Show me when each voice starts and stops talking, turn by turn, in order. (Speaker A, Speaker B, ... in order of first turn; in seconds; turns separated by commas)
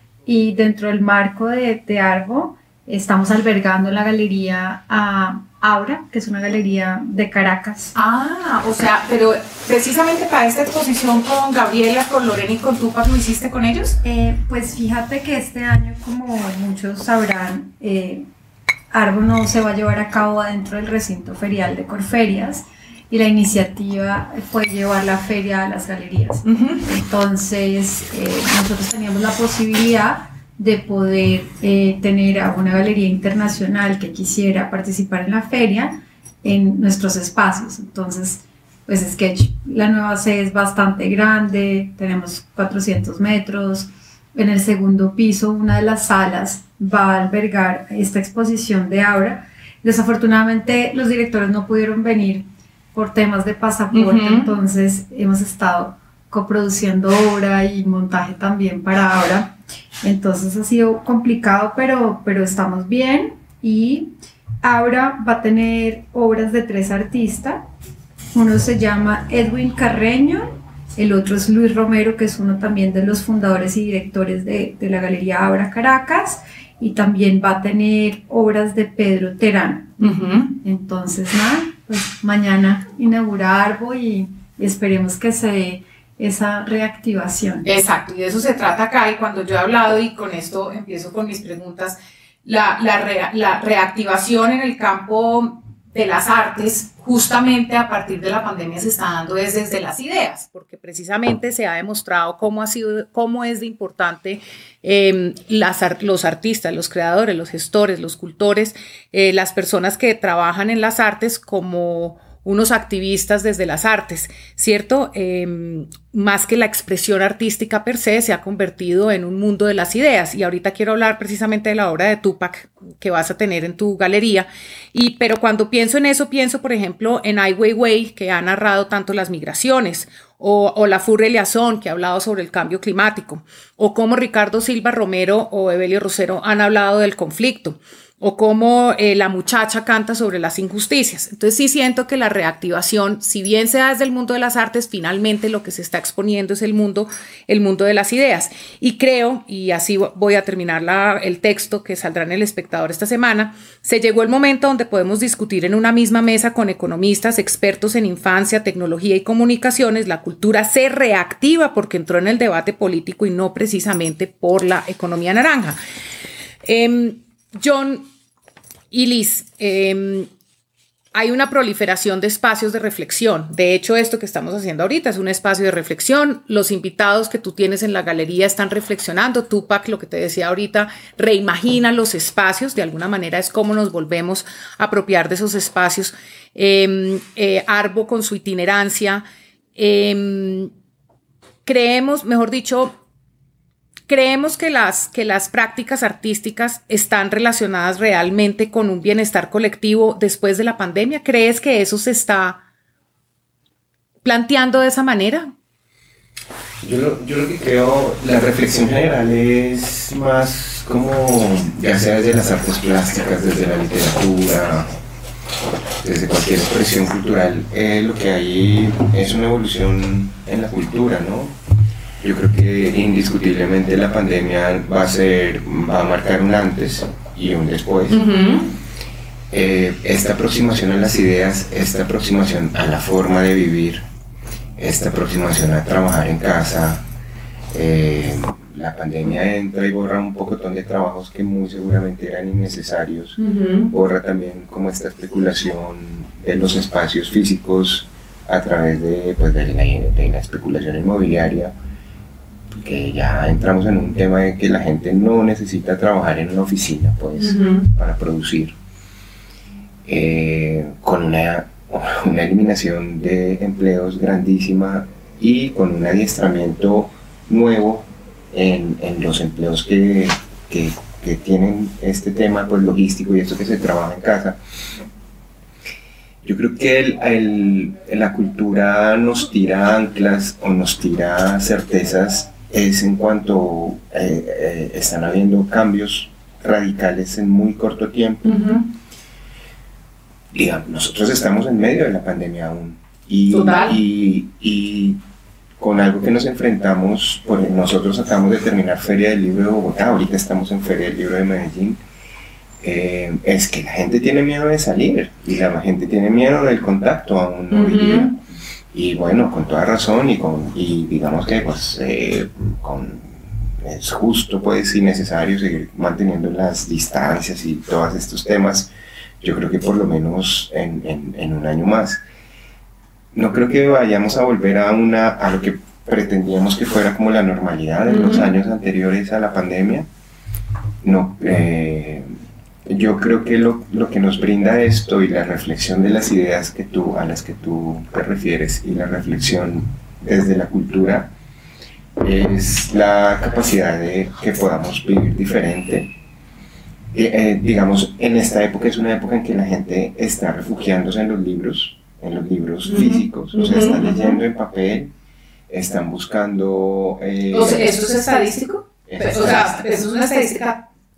Speaker A: 0.3-8.0, Speaker B: 8.0-14.0, Speaker A: 14.0-18.3, Speaker A: 18.9-67.7, Speaker B: 26.4-26.8, Speaker B: 53.9-54.5, Speaker A: 68.3-80.0, Speaker B: 80.0-80.6, Speaker A: 80.6-87.7, Speaker B: 87.6-165.8, Speaker B: 166.6-168.1, Speaker B: 168.9-170.3, Speaker B: 171.1-189.2, Speaker B: 189.8-190.7, Speaker B: 191.7-192.9, Speaker B: 194.1-202.6, Speaker B: 204.2-205.5, Speaker C: 206.8-214.9, Speaker C: 216.0-221.6, Speaker C: 222.2-228.2, Speaker B: 228.1-228.7, Speaker C: 229.5-234.0, Speaker C: 234.8-237.0, Speaker C: 237.7-243.4, Speaker B: 243.4-243.9, Speaker C: 243.9-251.7, Speaker C: 252.8-258.8, Speaker B: 257.4-257.9, Speaker C: 260.1-274.6, Speaker C: 276.4-288.8, Speaker B: 288.4-288.9, Speaker C: 290.5-295.2, Speaker B: 293.5-294.0, Speaker C: 295.8-302.0, Speaker C: 302.8-308.4, Speaker B: 307.7-308.3, Speaker C: 308.9-322.2, Speaker C: 323.3-330.1, Speaker B: 328.1-328.5, Speaker C: 331.0-332.3, Speaker C: 332.9-341.3, Speaker C: 342.2-346.1, Speaker C: 347.1-355.1, Speaker B: 352.9-354.4, Speaker C: 355.7-357.9, Speaker B: 357.5-360.9, Speaker C: 359.1-359.7